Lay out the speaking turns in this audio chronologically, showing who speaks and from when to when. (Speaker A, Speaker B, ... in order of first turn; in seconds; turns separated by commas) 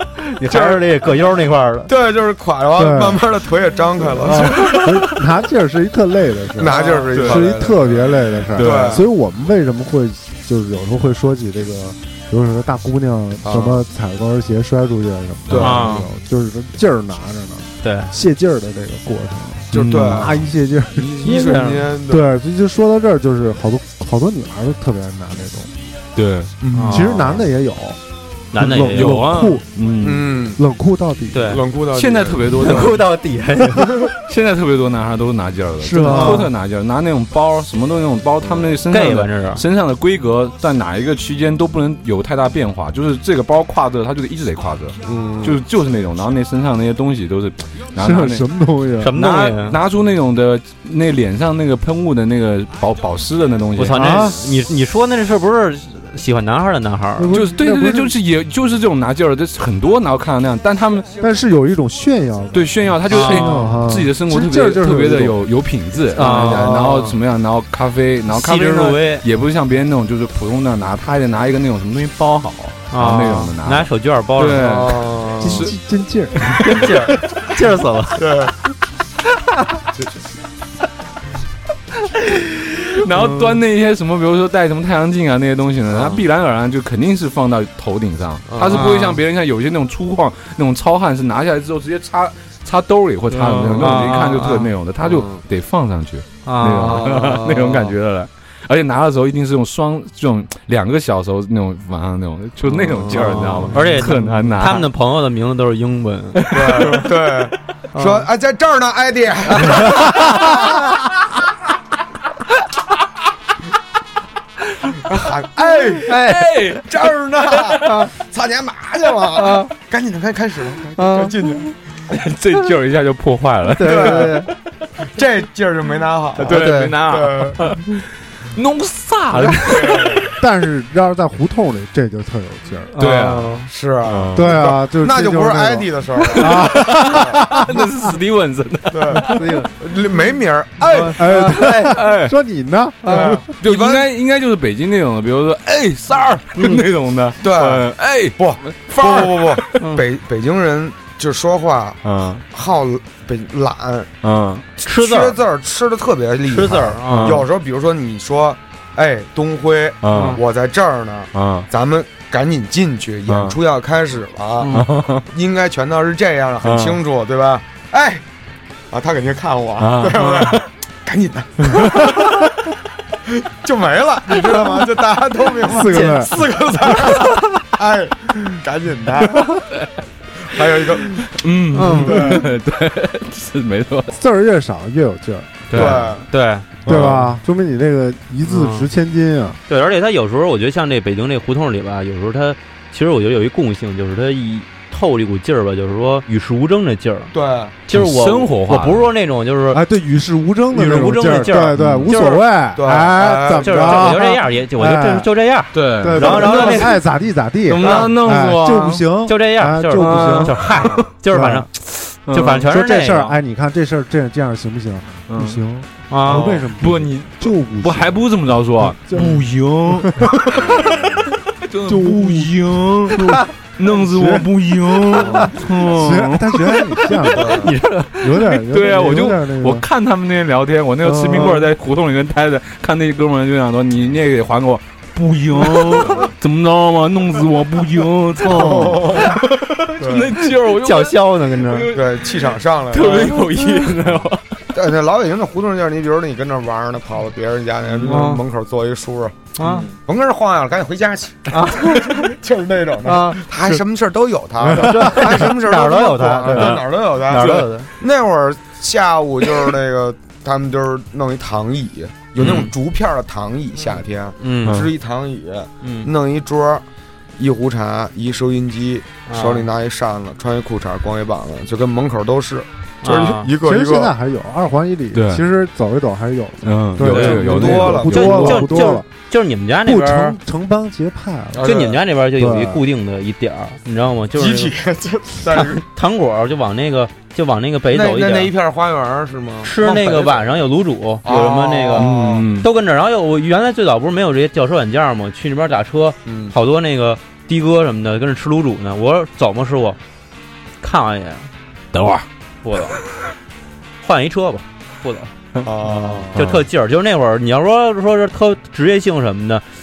Speaker A: 0.4-1.9, Speaker B: 0.5-0.8, Speaker B: 1.9-5.0, Speaker C: 2.7-3.2, Speaker C: 4.2-25.7, Speaker B: 6.5-9.0, Speaker A: 6.7-7.1, Speaker D: 7.1-7.5, Speaker D: 8.5-9.0, Speaker B: 13.4-13.8, Speaker B: 15.5-16.0, Speaker A: 15.6-16.1, Speaker A: 17.8-18.1, Speaker D: 19.7-20.4, Speaker B: 19.7-22.3, Speaker A: 21.2-21.9, Speaker D: 26.1-26.5, Speaker B: 26.6-27.1, Speaker A: 26.7-27.4, Speaker C: 26.8-28.0, Speaker A: 28.5-29.3, Speaker C: 28.5-29.7, Speaker D: 28.9-30.3, Speaker B: 30.0-30.6, Speaker C: 30.5-31.6, Speaker A: 31.3-31.6, Speaker B: 31.4-33.0, Speaker D: 31.9-33.0, Speaker A: 32.6-34.0, Speaker B: 33.8-34.1, Speaker D: 34.1-48.5, Speaker C: 35.8-36.5, Speaker A: 36.0-36.5, Speaker B: 38.4-38.7, Speaker A: 38.9-39.6, Speaker B: 45.0-45.6, Speaker C: 48.0-49.1, Speaker A: 49.0-49.8, Speaker D: 49.1-54.3, Speaker A: 53.8-57.3, Speaker C: 53.9-54.5, Speaker C: 57.1-58.1, Speaker D: 57.3-61.1, Speaker C: 61.2-65.4, Speaker D: 62.5-75.7, Speaker A: 63.1-63.8, Speaker A: 66.1-66.7, Speaker B: 66.2-67.2, Speaker A: 68.3-69.2, Speaker A: 72.9-74.7, Speaker B: 74.5-75.7, Speaker C: 75.4-76.9, Speaker A: 76.6-78.2, Speaker B: 76.8-77.1, Speaker B: 78.1-78.5, Speaker D: 82.2-104.9, Speaker B: 85.9-86.2, Speaker B: 88.5-88.9, Speaker A: 88.7-89.2, Speaker A: 93.3-94.7, Speaker B: 93.6-94.1, Speaker B: 95.0-95.4, Speaker A: 96.4-97.1, Speaker B: 96.8-97.9, Speaker B: 102.7-104.0, Speaker A: 103.3-107.0, Speaker D: 106.4-107.2, Speaker B: 106.5-110.8, Speaker A: 107.9-108.3, Speaker A: 109.6-110.7, Speaker B: 114.9-116.2, Speaker D: 115.8-117.9, Speaker A: 116.0-116.6, Speaker B: 116.7-121.7, Speaker A: 117.8-118.1, Speaker A: 119.3-119.7, Speaker A: 121.0-121.3, Speaker D: 122.1-124.5, Speaker A: 123.7-124.5, Speaker B: 123.8-124.4, Speaker B: 125.0-127.6, Speaker D: 126.4-130.3, Speaker A: 126.4-127.0, Speaker B: 129.3-130.3, Speaker C: 130.3-132.9, Speaker A: 132.9-133.7, Speaker D: 133.0-134.6, Speaker B: 133.7-137.4, Speaker C: 134.3-137.9, Speaker D: 136.2-139.4, Speaker B: 138.9-141.2, Speaker A: 139.2-139.7, Speaker A: 140.8-142.0, Speaker C: 141.1-143.5, Speaker D: 141.6-142.3, Speaker A: 143.0-143.3, Speaker B: 143.1-144.0, Speaker D: 143.6-149.8, Speaker B: 147.4-154.1, Speaker D: 152.0-152.4, Speaker D: 154.2-154.7, Speaker A: 154.8-155.4, Speaker B: 154.8-168.2, Speaker A: 156.5-157.4, Speaker D: 157.1-157.4, Speaker D: 160.0-160.4, Speaker A: 160.1-160.4, Speaker D: 161.3-161.7, Speaker D: 163.3-163.6, Speaker A: 164.6-164.9, Speaker D: 164.7-165.2, Speaker D: 166.6-167.0, Speaker B: 168.9-172.5, Speaker D: 169.8-170.6, Speaker B: 173.3-179.6, Speaker C: 175.6-176.4, Speaker A: 175.9-176.2, Speaker B: 180.4-181.3, Speaker D: 181.2-184.2, Speaker A: 181.7-182.3, Speaker B: 182.0-182.4, Speaker C: 184.1-185.6, Speaker A: 185.7-186.7, Speaker B: 185.7-186.3, Speaker D: 185.7-186.1, Speaker D: 186.8-187.3, Speaker B: 186.8-187.2, Speaker C: 186.8-189.6, Speaker A: 188.4-188.9, Speaker A: 189.7-197.3, Speaker B: 197.3-197.8, Speaker A: 197.8-199.8, Speaker D: 197.9-199.1, Speaker C: 199.7-205.3, Speaker A: 200.7-202.4, Speaker D: 201.7-202.1, Speaker B: 202.8-204.1, Speaker A: 203.4-206.9, Speaker D: 205.7-207.0, Speaker C: 206.0-211.7, Speaker D: 207.7-209.0, Speaker B: 207.8-208.1, Speaker A: 209.3-213.3, Speaker D: 209.9-211.1, Speaker D: 212.3-212.7, Speaker C: 212.7-218.2, Speaker D: 215.3-215.6, Speaker A: 216.1-216.5, Speaker D: 216.2-227.2, Speaker C: 218.8-220.6, Speaker C: 221.8-227.7, Speaker B: 225.1-225.5, Speaker B: 227.3-227.7, Speaker A: 227.5-228.2, Speaker C: 228.2-229.8, Speaker D: 228.5-244.6, Speaker C: 231.0-231.6, Speaker A: 231.3-231.6, Speaker A: 235.5-236.2, Speaker B: 238.5-239.4, Speaker A: 238.6-239.4, Speaker B: 240.0-240.3, Speaker A: 240.7-241.9, Speaker B: 241.9-243.4, Speaker A: 243.0-243.9, Speaker B: 244.7-249.5, Speaker D: 247.9-248.3, Speaker A: 248.1-248.4, Speaker A: 249.6-249.9, Speaker D: 249.6-249.9, Speaker B: 250.0-266.8, Speaker A: 251.5-252.3, Speaker A: 253.0-253.4, Speaker A: 254.8-257.9, Speaker D: 256.5-256.8, Speaker A: 262.4-262.7, Speaker A: 264.4-264.8, Speaker D: 264.6-264.9, Speaker A: 265.8-266.1, Speaker B: 267.4-274.1, Speaker A: 269.3-269.7, Speaker A: 273.0-273.5, Speaker C: 273.6-279.1, Speaker D: 275.1-275.4, Speaker D: 276.6-278.8, Speaker A: 277.0-277.4, Speaker B: 277.1-278.7, Speaker A: 278.1-280.4, Speaker C: 279.8-281.7, Speaker B: 281.5-282.0, Speaker A: 281.6-284.7, Speaker C: 282.3-282.8, Speaker B: 284.3-285.8, Speaker A: 285.5-288.5, Speaker B: 287.9-290.6, Speaker A: 289.6-300.0, Speaker B: 291.2-292.5, Speaker D: 291.9-292.7, Speaker B: 296.2-296.6, Speaker A: 300.8-301.5, Speaker D: 301.9-302.3, Speaker A: 302.6-303.0, Speaker A: 304.0-305.3, Speaker B: 305.6-306.4, Speaker D: 306.3-306.6, Speaker A: 306.3-309.6